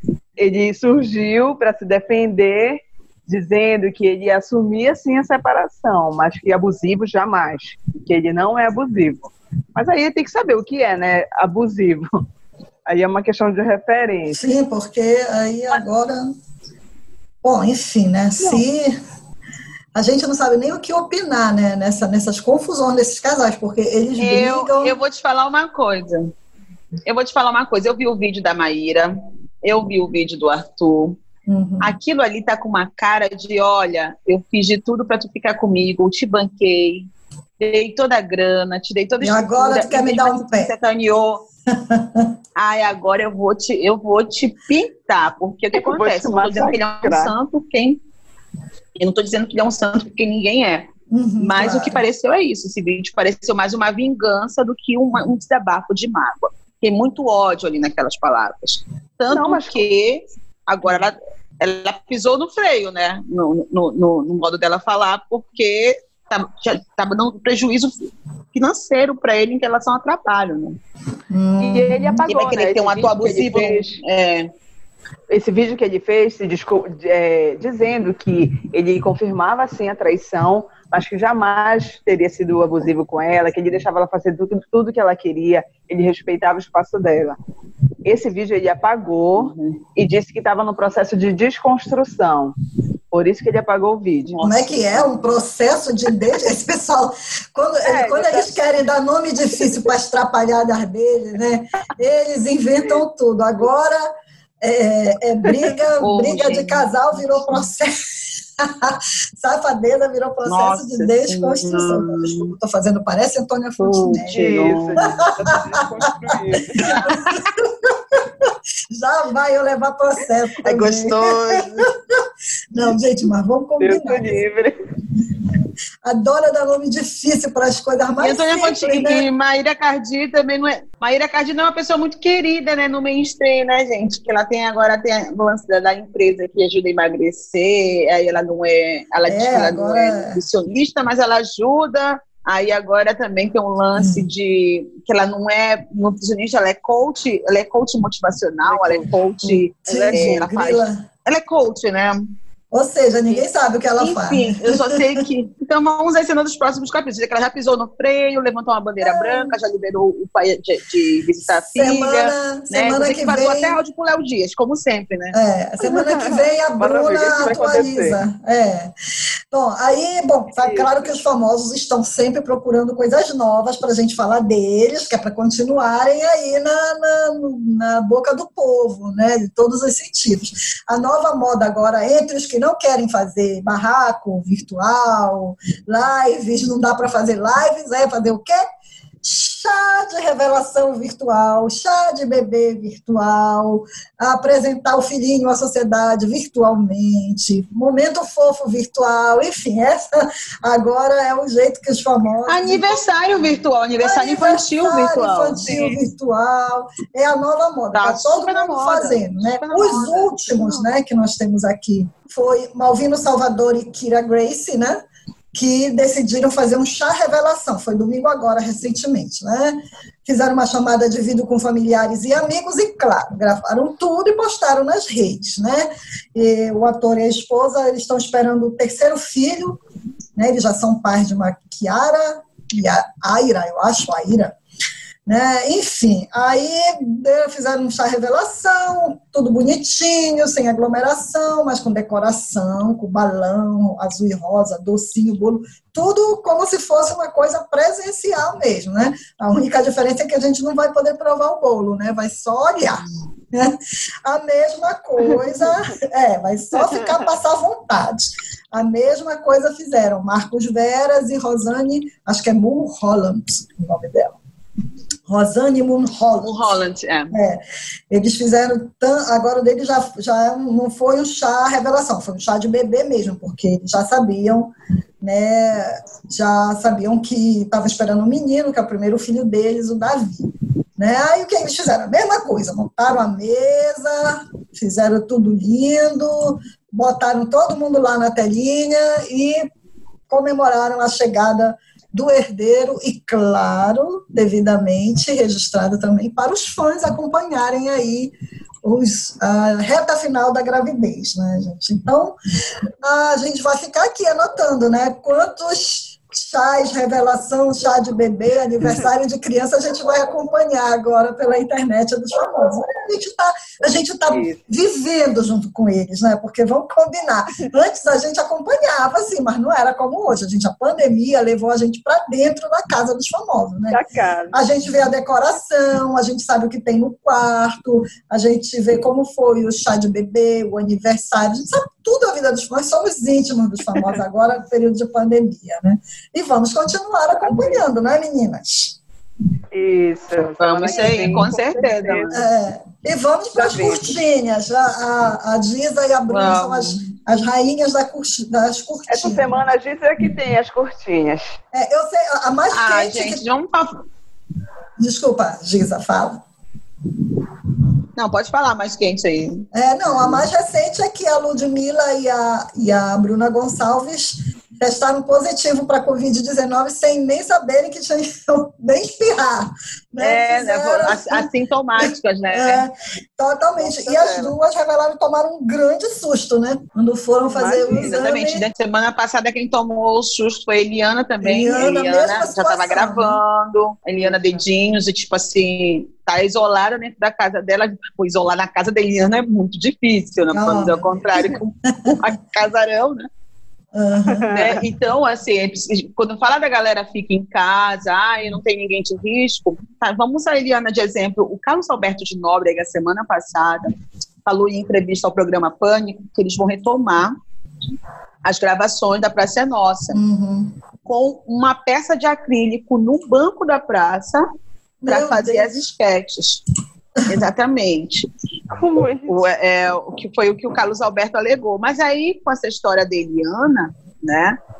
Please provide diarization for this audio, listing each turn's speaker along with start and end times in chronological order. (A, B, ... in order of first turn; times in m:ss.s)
0:00.4-0:12.2 A
0:12.9-0:14.4 A
0:14.3-0:16.3 B
0:17.4-0:19.0 B
0:20.0-0:25.0 B
0:24.2-0:26.3 C
0:27.1-0:31.2 C
0:31.5-0:32.0 B
0:31.8-0:37.1 C
0:37.6-0:41.4 C
0:39.2-0:40.7 B
0:41.7-0:42.3 B
0:42.6-0:48.0 C
0:45.7-0:47.3 A
0:49.0-1:10.8 C
0:51.1-0:52.0 B
0:59.3-0:59.8 A
1:11.3-1:12.2 B
1:11.6-1:14.0 A
1:12.3-1:14.5 C
1:15.3-1:27.4 A
1:28.1-1:32.5 A
1:29.4-1:29.8 C
1:33.1-1:34.4 A
1:34.3-1:35.1 C
1:34.4-1:44.1 B
1:37.8-1:38.7 A
1:44.6-1:47.9 B
1:46.0-1:47.6 C
1:48.6-1:55.6 B
1:50.5-1:52.5 C
1:53.8-1:55.0 C
1:54.3-1:57.0 A
1:56.3-2:04.4 B
1:56.8-1:57.5 C
2:00.6-2:01.9 C
2:03.8-2:04.8 A
2:06.0-2:09.2 B
2:08.2-2:32.2 C
2:19.3-2:20.4 B
2:24.0-2:24.3 B
2:28.7-2:29.1 A
2:29.4-2:31.0 B
2:29.9-2:30.4 A
2:32.7-2:35.2 B
2:34.0-2:45.4 C
2:39.0-2:39.6 B
2:41.4-2:43.8 B
2:45.3-2:48.9 B
2:45.8-2:48.2 A
2:49.5-3:08.6 B
2:50.6-2:51.0 A
3:09.2-3:23.0 B
3:22.5-3:26.0 C
3:24.0-3:35.0 B
3:27.9-3:30.9 C
3:35.5-3:49.8 B
3:50.4-3:54.5 B
3:55.3-4:24.4 B
4:25.3-4:26.8 B
4:26.4-4:27.4 C
4:27.3-4:49.6 B
4:50.3-5:02.4 B
5:03.0-5:39.0 B
5:14.3-5:14.6 A
5:23.9-5:24.6 A
5:39.7-5:42.3 A
5:40.6-5:42.4 C
5:40.9-5:41.3 B
5:42.3-5:49.5 B
5:43.5-5:44.2 A
5:46.3-5:47.0 C
5:49.1-5:51.6 A
5:51.7-5:53.4 B
5:52.7-5:54.0 C
5:55.0-5:56.4 B
5:58.2-6:00.4 C
5:59.7-6:18.7 B
6:10.2-6:12.9 C
6:13.8-6:14.5 A
6:17.5-6:18.2 A
6:18.0-6:33.3 C
6:21.4-6:23.4 B
6:24.1-6:24.6 A
6:30.5-6:32.3 B
6:33.9-6:34.5 B
6:34.3-6:34.8 A
6:34.5-6:43.9 C
6:44.5-6:47.3 C
6:48.4-6:50.2 C
6:50.1-6:50.8 B
6:51.0-6:54.4 C
6:55.0-6:55.8 B
6:55.0-6:56.6 C
6:57.2-6:58.3 C
6:58.7-6:59.5 A
6:59.3-7:04.6 C